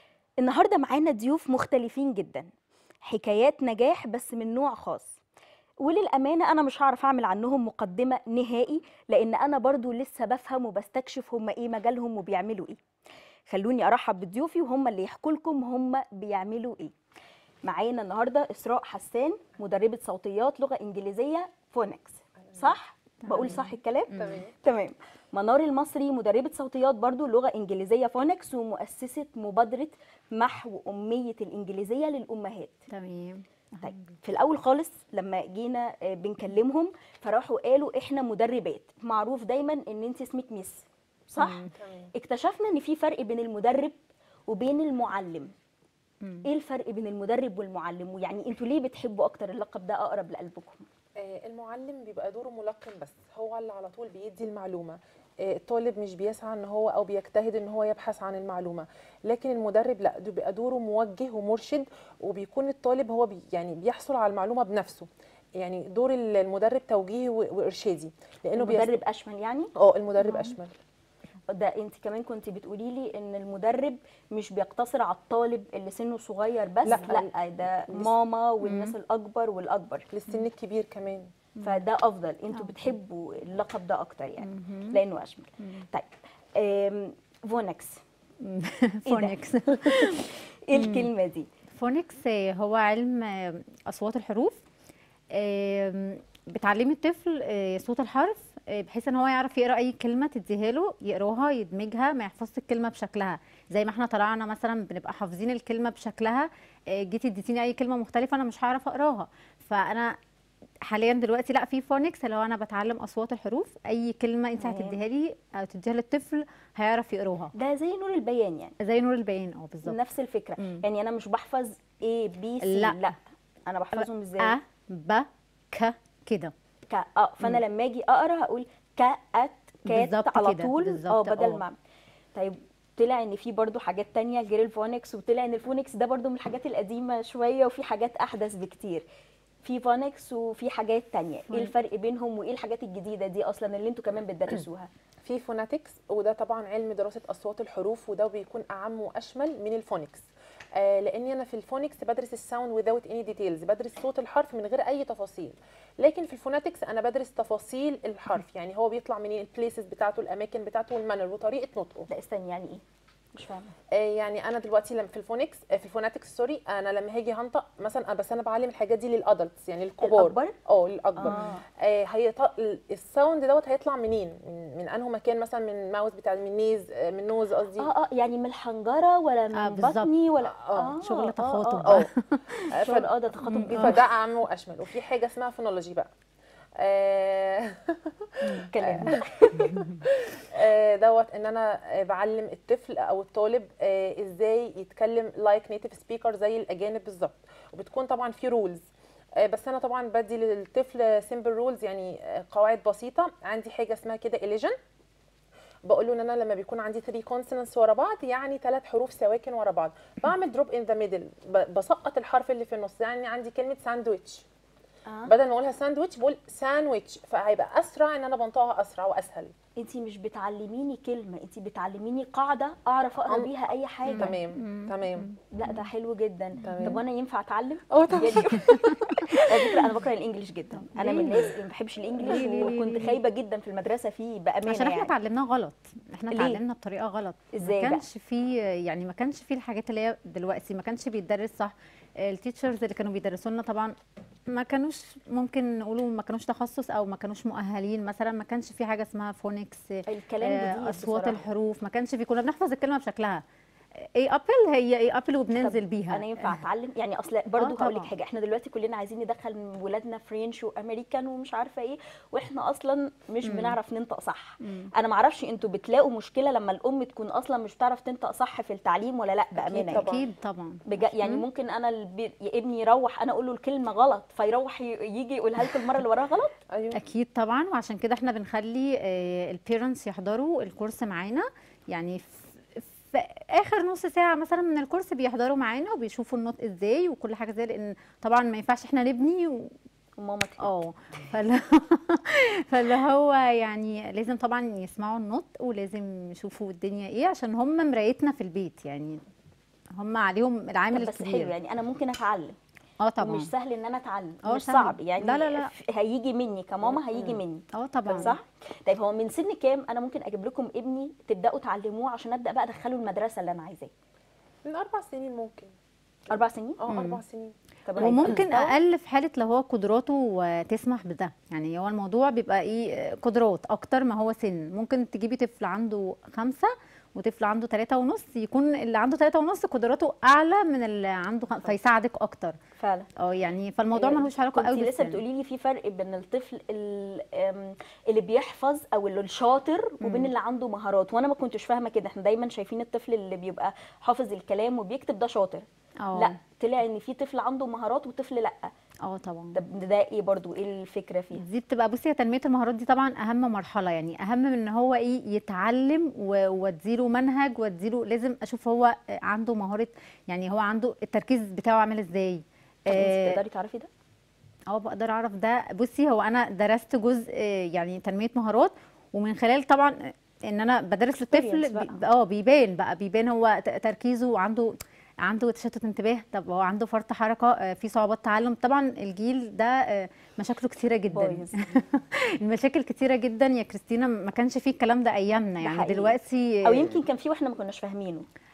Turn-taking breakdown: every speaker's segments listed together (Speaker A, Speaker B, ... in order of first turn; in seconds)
Speaker A: 0.4-2.5, 3.0-5.2, 5.8-12.8, 13.5-16.9, 17.6-32.8, 33.8-45.5, 46.5-50.9, 68.6-69.7, 71.5-80.1, 81.6-88.0, 89.1-91.5, 114.6-115.0, 117.5-118.8, 119.8-124.6, 126.9-131.8, 132.3-139.1, 139.6-144.9, 162.1-162.8, 163.3-163.7, 170.0-170.5, 171.2-171.6, 177.8-182.1, 182.7-184.0, 188.7-189.7, 215.1-215.3, 219.8-224.3, 225.5-235.1, 236.3-236.6, 237.5-238.0, 250.1-251.4, 255.6-270.1, 270.9-276.5, 290.2-290.7, 300.9-302.6, 303.2-313.9, 316.3-316.8, 317.9-318.7, 332.8-333.1, 333.9-348.7, 349.5-351.4, 362.9-363.9, 371.3-372.0, 381.1-381.8, 385.6-388.3
Speaker B: 23.2-24.4, 32.9-34.1, 41.4-41.7, 70.2-70.6, 78.6-78.9, 82.5-82.9, 84.4-85.0, 88.4-91.1, 91.7-94.6, 95.3-110.2, 110.8-117.5, 118.8-120.0, 120.6-120.8, 122.6-123.1, 123.9-126.5, 129.9-131.6, 179.5-180.1, 181.0-182.7, 183.5-184.0, 188.4-189.2, 189.7-190.0, 224.1-225.9, 226.7-227.0, 228.5-229.0, 230.9-231.6, 232.2-233.2, 234.7-243.9, 244.5-253.4, 254.0-256.6, 257.6-258.1, 263.4-263.8, 264.6-264.9, 269.9-271.4, 276.9-289.8, 290.6-299.2, 300.0-301.5, 303.0-303.5, 304.4-305.7, 307.7-308.4, 316.9-317.2, 318.0-332.6, 333.2-335.2, 340.0-340.3, 346.0-346.4, 349.0-349.6, 351.4-363.4, 364.7-387.1
Speaker C: 24.1-24.5, 41.8-42.1, 51.2-69.0, 69.8-70.7, 76.8-77.3, 80.1-81.3, 145.2-150.2, 150.8-162.1, 163.9-177.9, 180.4-181.0, 182.6-183.1, 183.7-186.1, 186.8-198.8, 199.4-204.8, 205.9-214.5, 215.3-219.5, 224.1-225.3, 226.6-227.0, 227.9-229.9, 269.7-270.3, 276.7-277.0, 306.9-307.4, 314.7-315.7, 316.8-317.6